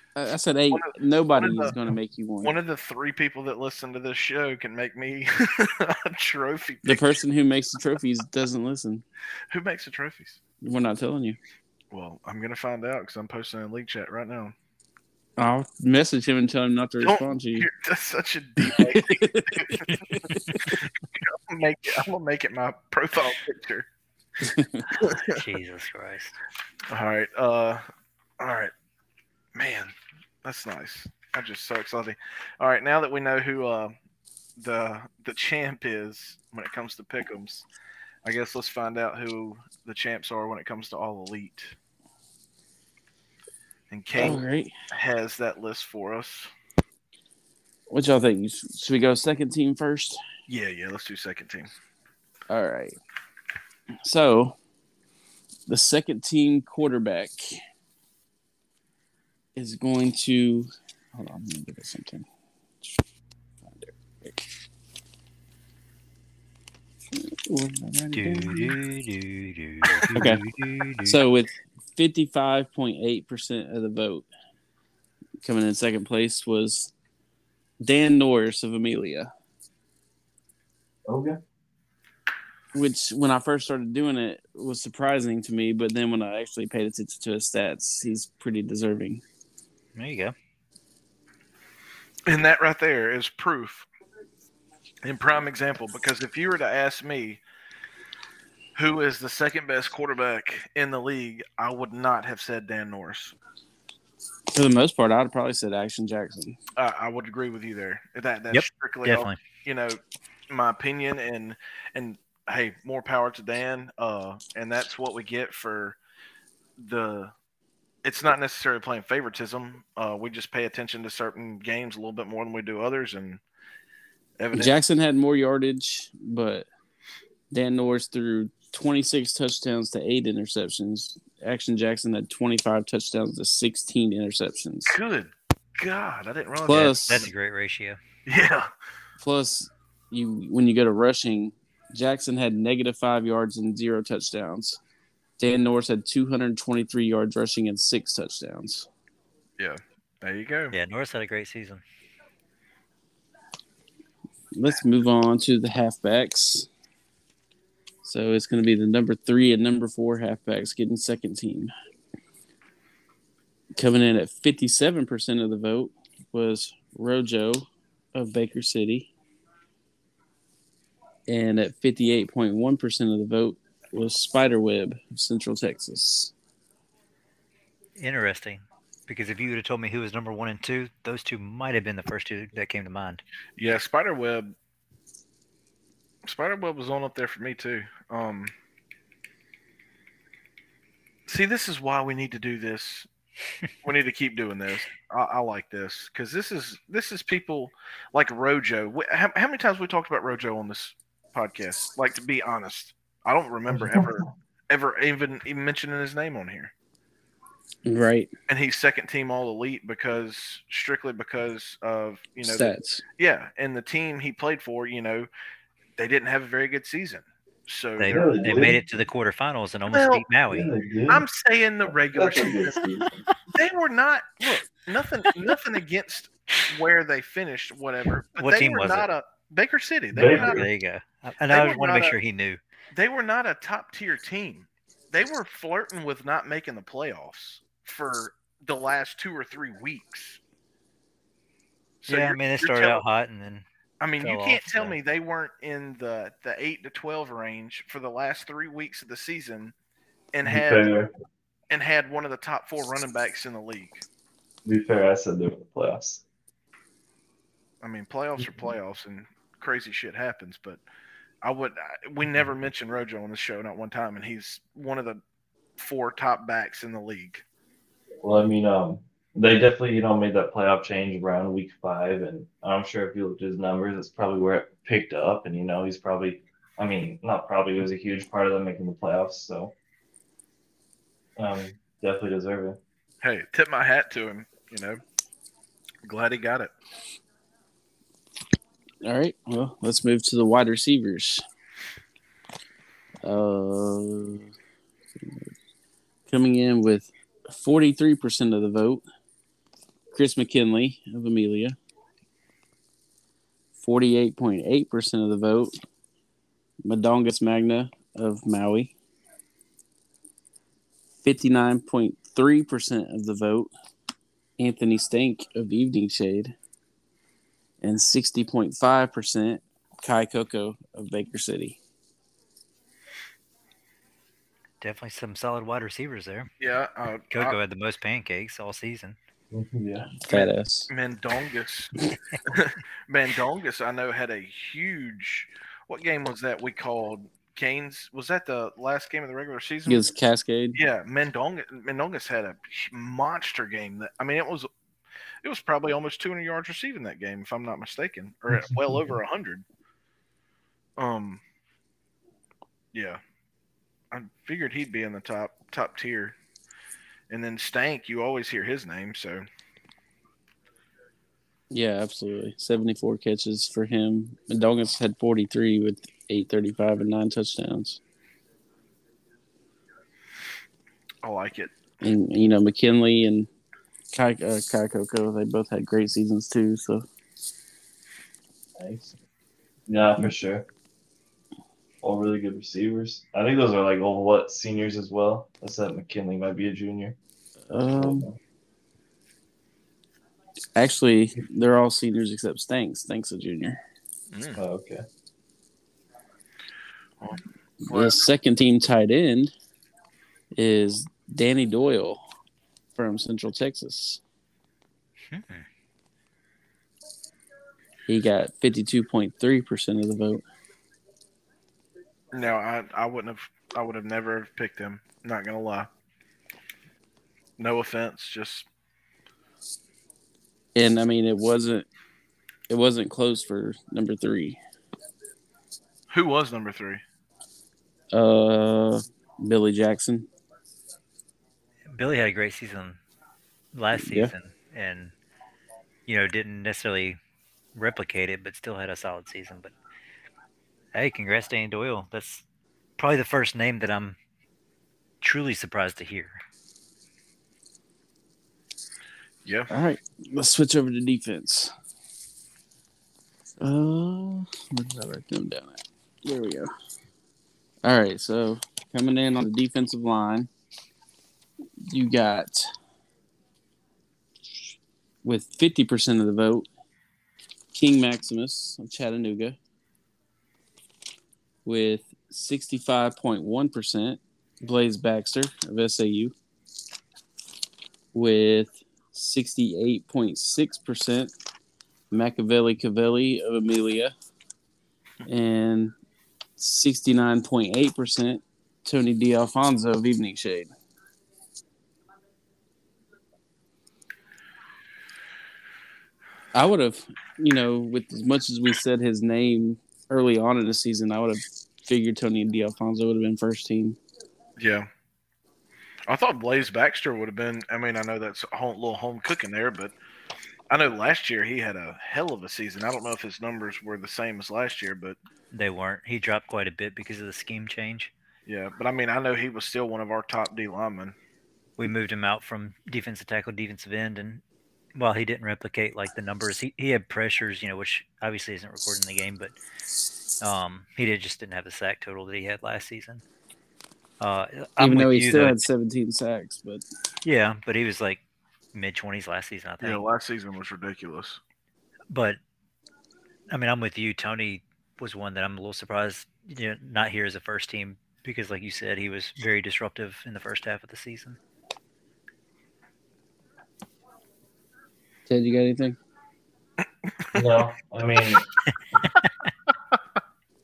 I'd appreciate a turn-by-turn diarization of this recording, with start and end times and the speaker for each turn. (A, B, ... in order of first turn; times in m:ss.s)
0:00.2-0:02.5 A
0:00.7-0:01.8 B
0:02.4-0:07.1 B
0:06.8-0:09.0 A
0:09.5-0:10.4 B
0:10.6-0:11.4 A
0:11.9-0:14.5 B
0:15.4-0:17.7 A
0:17.0-0:20.0 B
0:18.6-0:20.8 A
0:20.8-0:23.9 B
0:24.4-0:24.9 A
0:25.0-0:26.4 C
0:25.0-0:25.4 B
0:26.9-0:27.8 B
0:28.4-0:28.7 B
0:29.5-0:33.9 B
0:34.6-0:37.6 B
0:38.2-0:41.7 B
0:43.9-0:46.5 B
0:44.2-0:44.7 A
0:47.9-0:50.2 A
0:50.5-0:51.7 B
0:52.5-0:53.0 A
0:54.0-0:54.6 A
0:55.7-0:57.6 A
0:59.6-1:02.2 A
1:03.6-1:04.4 A
1:07.1-1:08.8 A
1:08.1-1:11.2 C
1:10.1-1:10.4 A
1:11.0-1:14.3 A
1:15.4-1:16.9 A
1:17.8-1:19.3 A
1:21.1-1:21.4 D
1:22.7-1:29.2 A
1:29.9-1:30.3 C
1:32.2-1:33.9 B
1:35.0-1:37.4 B
1:38.7-1:43.3 B
1:44.5-1:46.6 A
1:46.8-1:56.0 B
1:48.5-1:49.4 C
1:56.8-1:57.3 B
1:58.0-2:03.4 B
2:04.4-2:04.8 B
2:04.5-2:06.6 A
2:07.5-2:15.0 A
2:14.9-2:17.3 B
2:16.6-2:17.3 A
2:16.7-2:18.0 C
2:18.2-2:18.7 B
2:19.2-2:24.8 A
2:25.4-2:28.9 A
2:29.6-2:30.7 B
2:30.7-2:31.8 C
2:34.5-2:36.7 A
2:38.0-2:41.7 A
2:43.8-2:49.1 A
2:51.3-2:56.3 A
2:58.0-3:03.2 C
3:03.6-3:04.5 B
3:06.2-3:08.5 B
3:11.3-3:13.1 B
3:13.8-3:26.7 B
3:23.8-3:24.2 D
3:27.8-3:28.3 A
3:28.5-3:35.3 B
3:32.4-3:33.0 A
3:36.0-3:38.7 B
3:38.0-3:40.7 C
3:38.0-3:38.8 D
3:39.9-3:40.2 B
3:40.5-3:41.2 D
3:41.1-3:42.8 B
3:42.1-3:43.2 D
3:43.5-3:50.6 B
3:48.4-3:49.1 C
3:50.1-3:50.6 D
3:50.2-3:52.6 C
3:51.5-3:52.2 B
3:52.9-4:00.4 B
4:02.0-4:03.0 B
4:02.1-4:03.6 C
4:04.0-4:09.7 B
4:04.2-4:05.0 C
4:10.3-4:11.0 B
4:10.4-4:11.1 D
4:11.7-4:14.0 B
4:14.6-4:16.2 D
4:17.8-4:20.8 B
4:21.4-4:25.2 B
4:25.8-4:27.4 B
4:28.2-4:39.7 D
4:41.4-4:42.8 D
4:43.2-4:45.0 B
4:46.0-4:46.7 B
4:49.0-4:51.4 A
4:53.2-4:54.5 A
4:55.2-4:55.5 A
4:56.3-4:59.0 A
5:00.1-5:01.8 A
5:03.8-5:05.7 A
5:06.8-5:08.9 A
5:11.2-5:13.7 A
5:14.6-5:16.5 A
5:17.8-5:21.8 A
5:24.8-5:26.5 C
5:26.6-5:27.6 B
5:27.3-5:29.2 C
5:29.5-5:30.1 D
5:30.3-5:30.9 A
5:30.3-5:31.9 B
5:32.5-5:40.0 B
5:39.8-5:40.8 A
5:40.7-5:44.7 B
5:45.4-5:49.6 B
5:51.0-5:51.4 B
5:52.9-5:53.2 B
5:54.1-5:56.4 B
5:57.3-5:59.4 B
6:01.7-6:08.0 A
6:11.2-6:11.7 B
6:12.0-6:13.5 A
6:14.1-6:17.0 A
6:18.8-6:19.1 D
6:19.9-6:20.6 D
6:22.0-6:27.2 D
6:27.7-6:28.3 A
6:27.9-6:28.4 D
6:30.8-6:33.8 A
6:34.3-6:34.6 B
6:34.6-6:35.0 D
6:37.2-6:38.2 B
6:37.8-6:39.5 A
6:40.5-6:42.2 A
6:42.9-6:44.2 A
6:45.3-6:45.7 C
6:48.1-6:50.4 A
6:52.3-6:55.9 B
6:57.6-6:58.7 B
7:00.7-7:01.9 A
7:02.7-7:04.6 A
7:06.1-7:07.0 B
7:08.1-7:10.3 A
7:11.9-7:13.0 C
7:13.7-7:15.1 C
7:13.9-7:14.3 A
7:16.1-7:17.2 C
7:17.7-7:19.7 C
7:20.9-7:22.4 C
7:23.0-7:24.2 C
7:25.2-7:26.4 C
7:29.4-7:29.7 B
7:29.7-7:31.7 A
7:33.6-7:36.7 A
7:37.8-7:40.5 A
7:41.9-7:42.7 A
7:45.2-7:46.7 A
7:47.7-7:49.6 A
7:51.6-7:56.3 A
7:58.1-8:01.3 A
8:02.1-8:04.1 A
8:05.2-8:05.9 A
8:06.6-8:10.7 A
8:16.5-8:24.0 A
8:24.6-8:24.9 B
8:26.1-8:29.9 B
8:30.7-8:35.2 B
8:35.5-8:38.1 C
8:38.4-8:41.2 B
8:41.8-8:44.4 C
8:44.9-8:49.5 C
8:50.4-8:53.2 C
8:54.2-8:55.6 C
8:54.8-8:56.8 A
8:57.2-8:58.2 C
8:58.7-9:00.0 C
8:59.8-9:01.4 B
9:02.1-9:02.4 C
9:03.5-9:11.4 C
9:15.3-9:16.0 A
9:17.0-9:17.4 B
9:17.3-9:18.5 D